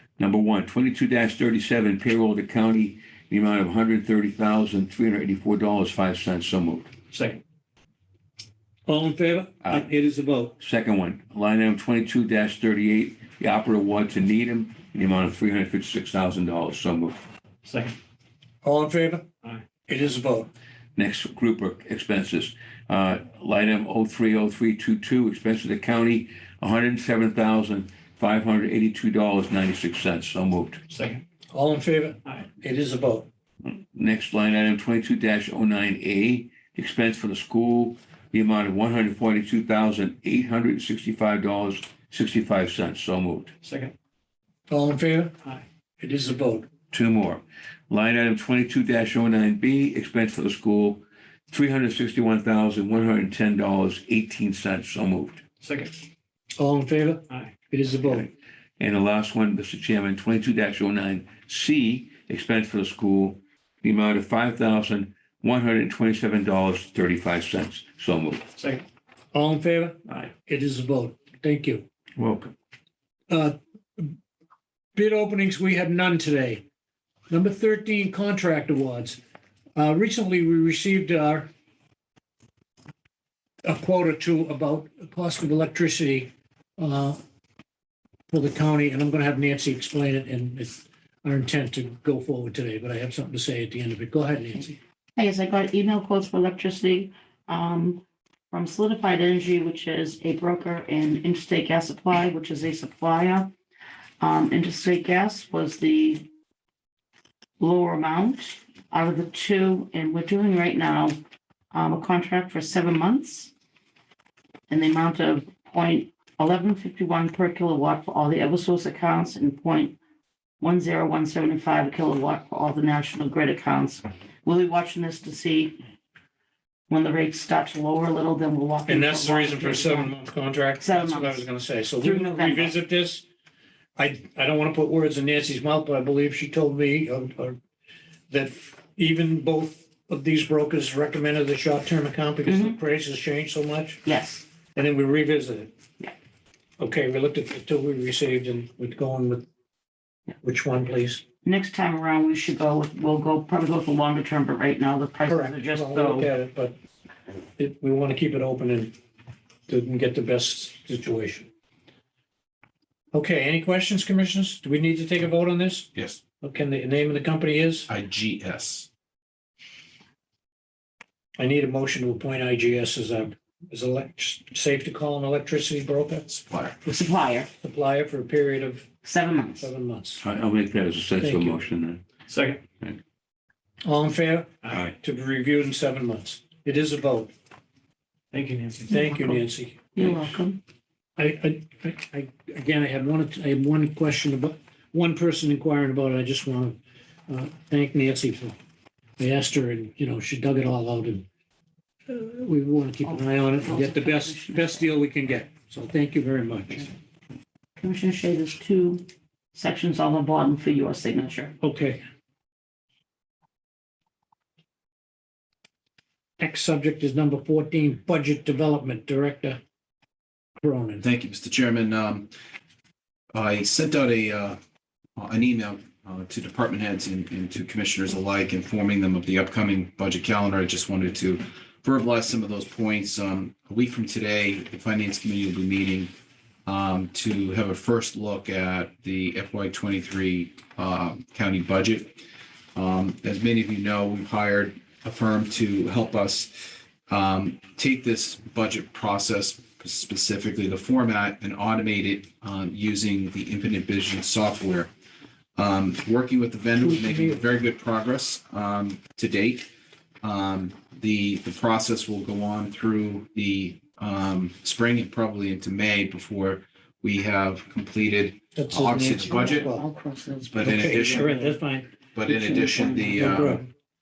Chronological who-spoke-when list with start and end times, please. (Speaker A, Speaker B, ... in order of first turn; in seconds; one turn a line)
Speaker A: 0.2-6.9
Speaker B: 7.1-7.4
Speaker C: 8.9-10.5
Speaker A: 10.6-17.2
Speaker B: 17.6-18.0
Speaker C: 18.6-19.3
Speaker C: 19.9-20.5
Speaker A: 20.9-30.8
Speaker B: 30.9-31.2
Speaker C: 31.5-33.3
Speaker A: 33.6-43.5
Speaker B: 43.6-43.9
Speaker C: 44.7-45.3
Speaker C: 46.0-46.7
Speaker A: 46.9-55.4
Speaker B: 55.6-56.0
Speaker C: 56.6-58.3
Speaker A: 58.1-68.5
Speaker B: 68.6-68.8
Speaker C: 69.3-71.8
Speaker A: 72.2-72.5
Speaker C: 73.3-74.1
Speaker C: 75.0-76.6
Speaker C: 77.3-79.2
Speaker C: 79.8-81.5
Speaker C: 83.6-87.2
Speaker C: 88.3-94.8
Speaker D: 95.2-103.5
Speaker D: 104.2-106.2
Speaker D: 107.6-111.2
Speaker D: 111.7-113.5
Speaker D: 114.7-120.0
Speaker D: 120.6-125.8
Speaker D: 126.9-130.1
Speaker C: 128.9-133.2
Speaker D: 130.8-131.4
Speaker D: 132.0-132.7
Speaker C: 133.9-137.6
Speaker C: 138.3-144.0
Speaker D: 142.4-142.8
Speaker D: 144.0-144.4
Speaker C: 144.7-145.7
Speaker C: 146.8-149.4
Speaker C: 150.4-151.2
Speaker D: 151.4-156.3
Speaker C: 155.2-156.7
Speaker C: 157.6-158.9
Speaker C: 159.7-161.5
Speaker C: 163.1-165.9
Speaker E: 165.9-166.2
Speaker C: 166.4-167.9
Speaker E: 167.9-168.9
Speaker C: 171.4-176.3
Speaker E: 176.3-176.8
Speaker D: 176.8-177.5
Speaker C: 177.6-178.9
Speaker D: 179.0-179.7
Speaker C: 179.6-180.2
Speaker A: 180.2-182.0
Speaker C: 181.2-181.6
Speaker B: 182.3-182.6
Speaker C: 183.8-187.3
Speaker B: 184.6-184.9
Speaker B: 188.3-188.9
Speaker D: 188.9-189.4
Speaker C: 188.9-190.3
Speaker D: 189.9-190.6
Speaker C: 191.2-198.5
Speaker C: 199.2-201.2
Speaker C: 202.1-206.9
Speaker D: 203.0-204.9
Speaker D: 207.8-211.6
Speaker C: 211.6-212.0
Speaker C: 216.4-219.6
Speaker C: 220.6-221.0
Speaker E: 221.0-222.3
Speaker E: 223.3-224.6
Speaker E: 225.2-236.1
Speaker E: 236.7-242.2
Speaker E: 242.7-254.9
Speaker E: 255.6-259.7
Speaker C: 256.8-257.4
Speaker E: 260.2-269.7
Speaker C: 268.6-269.9
Speaker D: 269.1-271.6
Speaker E: 270.5-271.3
Speaker C: 270.6-271.9
Speaker E: 272.1-273.6
Speaker D: 272.2-273.4
Speaker C: 273.2-273.7